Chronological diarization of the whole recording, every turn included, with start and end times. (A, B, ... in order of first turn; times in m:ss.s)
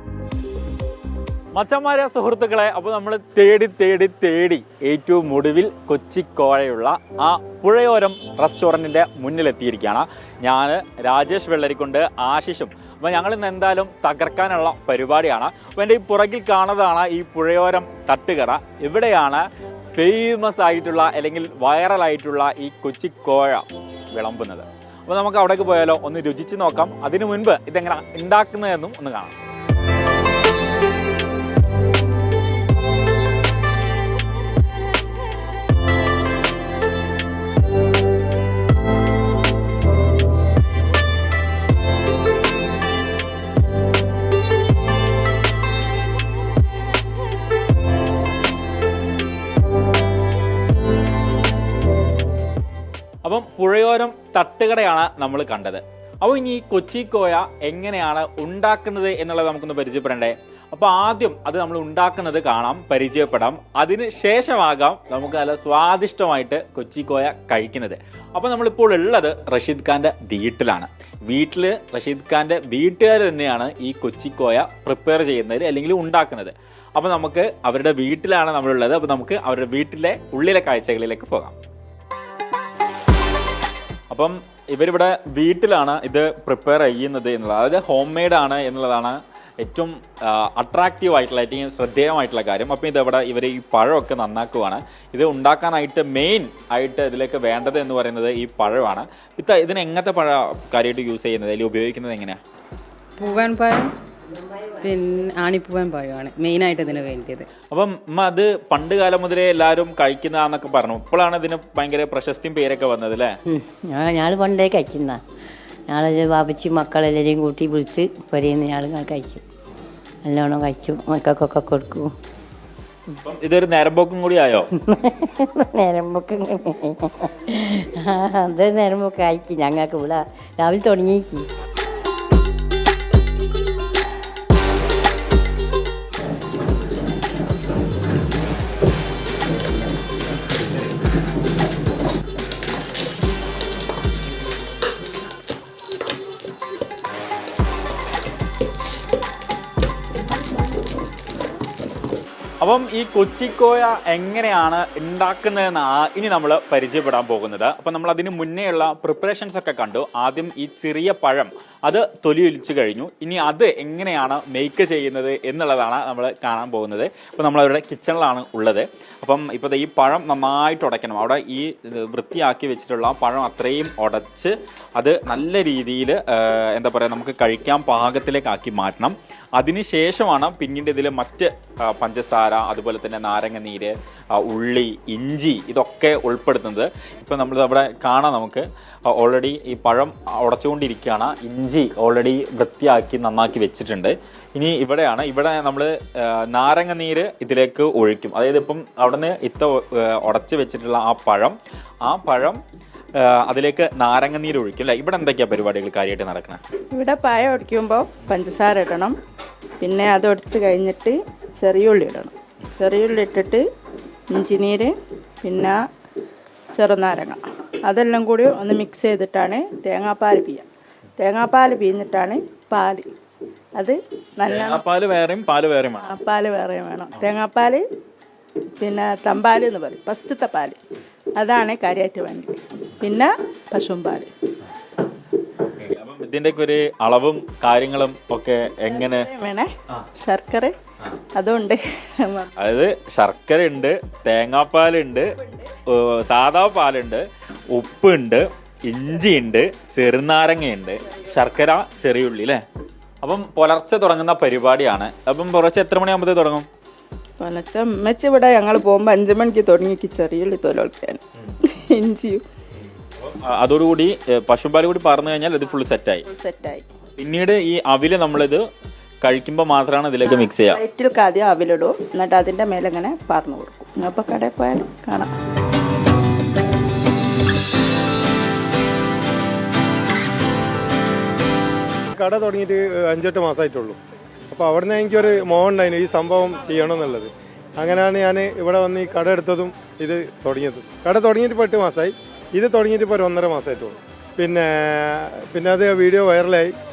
0:01.5-0:29.3 A
0:53.2-1:21.6 A
1:24.1-1:42.4 A
1:43.2-1:43.9 B
1:44.8-1:47.5 B
1:47.7-1:53.4 A
1:53.5-1:55.2 C
1:55.9-1:59.4 C
2:00.2-2:02.1 C
2:03.2-2:04.7 A
2:04.8-2:11.4 C
2:32.6-3:22.6 A
3:23.2-3:26.6 A
3:26.9-3:29.1 D
3:29.8-3:33.6 D
3:34.3-3:35.8 D
3:36.7-3:40.7 D
3:41.2-3:43.1 D
3:43.8-3:44.8 D
3:44.4-3:46.1 A
3:46.0-3:47.8 D
3:48.8-3:50.8 D
3:51.4-3:54.3 D
3:55.8-3:59.3 A
3:58.9-4:00.8 D
4:01.3-4:02.5 D
4:02.6-4:05.3 A
4:05.8-4:12.6 A
4:13.2-4:16.7 A
4:17.4-4:22.4 D
4:23.4-4:26.2 A
4:26.2-4:26.8 D
4:27.2-4:28.6 A
4:29.2-4:30.8 A
4:30.2-4:35.3 D
4:42.1-4:44.0 E
4:44.5-4:56.7 E